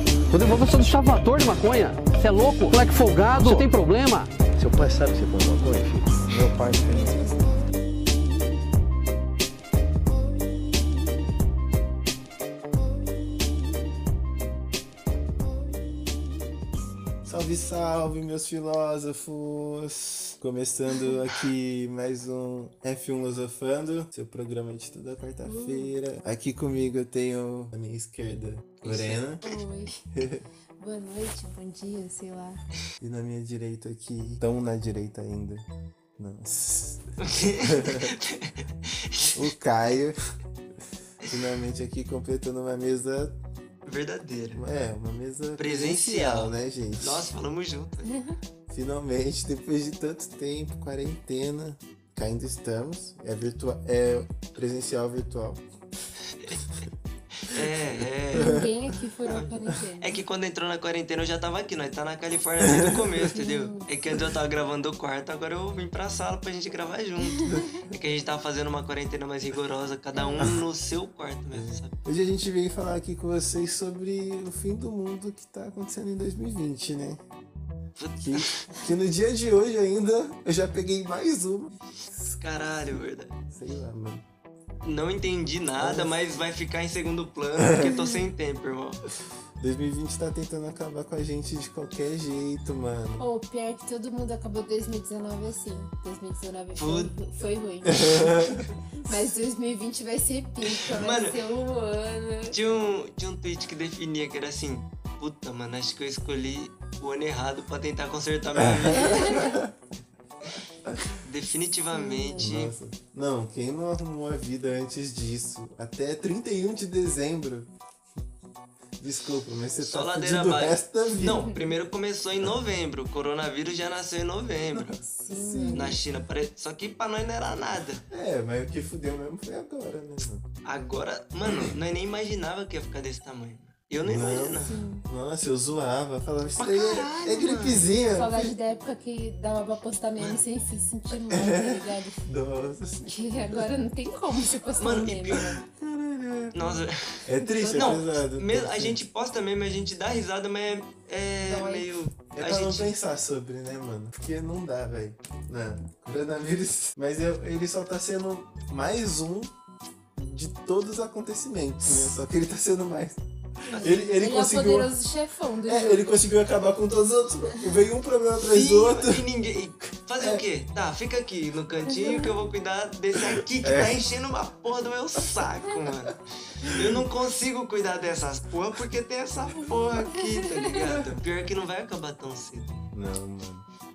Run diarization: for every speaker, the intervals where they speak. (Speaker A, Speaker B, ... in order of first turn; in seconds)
Speaker A: 0.3-4.3
Speaker B: 3.4-3.7, 4.5-7.1
Speaker C: 6.3-7.4, 17.2-29.4, 30.1-30.5, 33.0-35.7, 36.2-38.1, 39.3-40.2, 41.2-43.4, 44.5-47.3, 48.7-55.6, 57.5-58.7, 62.7-63.0, 67.4-67.9, 71.5-77.2, 78.2-82.4, 83.5-84.2, 85.8-86.2, 87.6-87.9, 89.6-93.3, 97.9-98.7, 108.6-109.7, 112.4-117.7, 119.0-121.5, 124.7-126.0, 128.1-130.5, 134.0-138.5, 141.3-143.7, 145.3-146.6, 147.2-149.0, 152.3-159.5, 160.2-163.2, 163.7-164.9, 165.7-169.3, 170.2-170.4, 173.4-174.0, 176.6-176.9, 182.9-183.7
Speaker D: 25.4-25.9, 29.4-29.9, 30.8-32.6, 48.0-48.4, 58.4-60.1, 63.3-63.9, 70.1-70.5, 87.8-88.2, 93.2-102.5, 109.0-109.6, 111.9-112.5, 125.0-126.0, 134.4-135.1, 138.1-142.3, 143.0-145.6, 147.4-148.0, 151.4-151.9, 163.7-166.1, 180.2-180.7
Speaker E: 28.8-29.2, 37.2-39.4, 43.9-44.6, 45.6-48.1, 57.4-58.7, 59.3-72.0, 78.0-78.8, 82.4-83.4, 84.8-89.1, 96.8-97.1, 100.8-101.4, 102.5-109.5, 111.2-112.8, 119.8-125.0, 125.7-128.1, 130.7-134.8, 136.6-137.9, 144.8-145.6, 146.5-152.9, 168.4-182.9